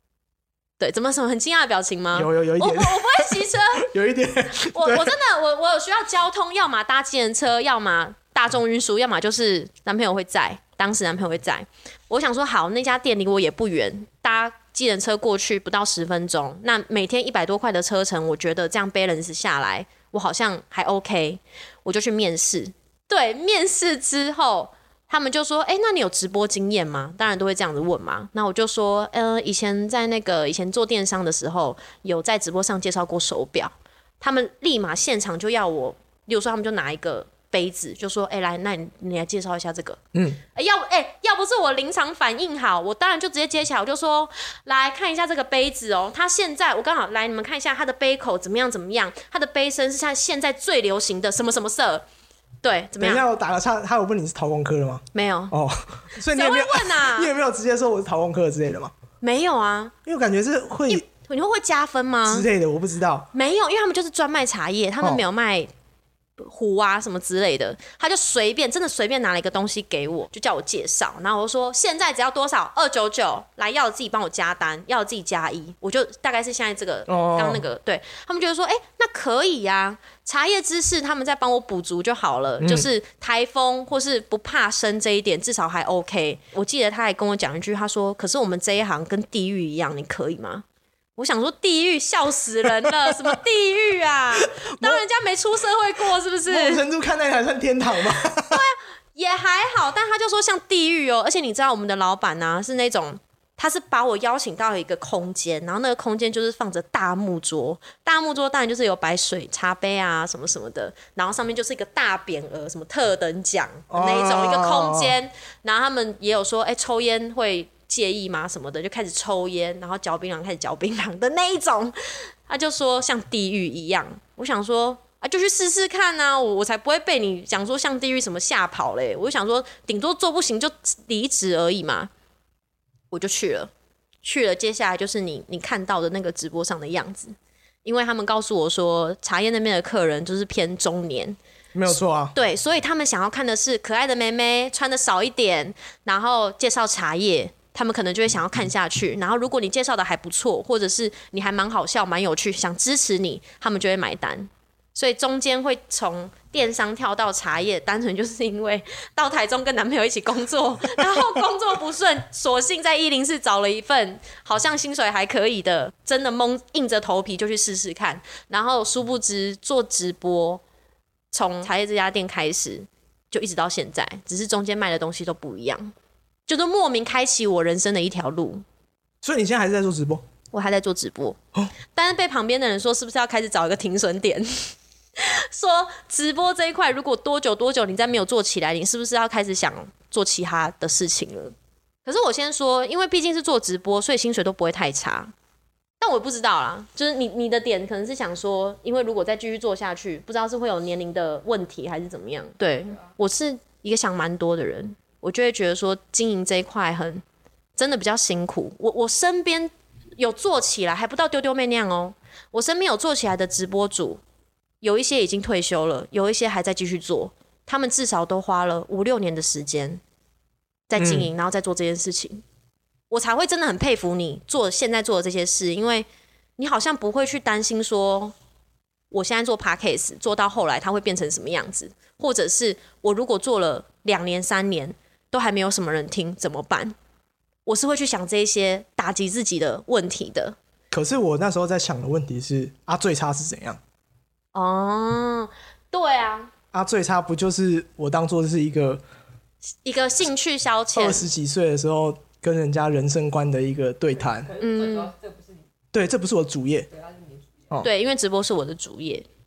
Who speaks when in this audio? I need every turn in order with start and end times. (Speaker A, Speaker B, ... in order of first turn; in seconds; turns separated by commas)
Speaker A: 0.8-3.9, Speaker B: 2.1-5.1, Speaker A: 4.5-40.0, Speaker B: 40.1-40.4, Speaker A: 40.5-52.0, Speaker A: 52.6-53.2, Speaker B: 53.0-58.9, Speaker A: 55.1-55.5, Speaker A: 56.2-57.3, Speaker A: 59.2-59.9, Speaker B: 60.0-61.1, Speaker A: 60.9-62.5, Speaker B: 62.3-63.3, Speaker A: 63.3-65.7, Speaker A: 66.4-90.6, Speaker B: 77.1-77.6, Speaker B: 82.6-82.9, Speaker A: 91.2-96.8, Speaker B: 94.4-95.0, Speaker B: 96.5-98.6, Speaker A: 98.3-132.1, Speaker B: 113.9-115.1, Speaker A: 133.1-133.7, Speaker A: 134.2-141.4, Speaker B: 141.7-142.3, Speaker A: 142.3-170.6, Speaker A: 171.3-175.9, Speaker A: 176.5-178.6, Speaker B: 179.2-180.2, Speaker A: 180.5-181.4, Speaker A: 181.9-191.5, Speaker A: 192.0-195.3, Speaker A: 196.0-207.2, Speaker A: 207.8-214.2, Speaker A: 214.8-220.0, Speaker A: 220.9-222.4, Speaker B: 221.0-221.3, Speaker A: 223.1-226.1, Speaker A: 226.6-228.3, Speaker A: 229.1-236.9, Speaker A: 237.7-240.6, Speaker B: 240.9-243.8, Speaker A: 244.5-246.5, Speaker B: 246.7-249.0, Speaker A: 249.8-251.2, Speaker B: 250.9-254.5, Speaker C: 254.2-255.7, Speaker A: 254.6-255.1, Speaker B: 255.9-256.9, Speaker C: 256.9-257.8, Speaker A: 257.8-259.2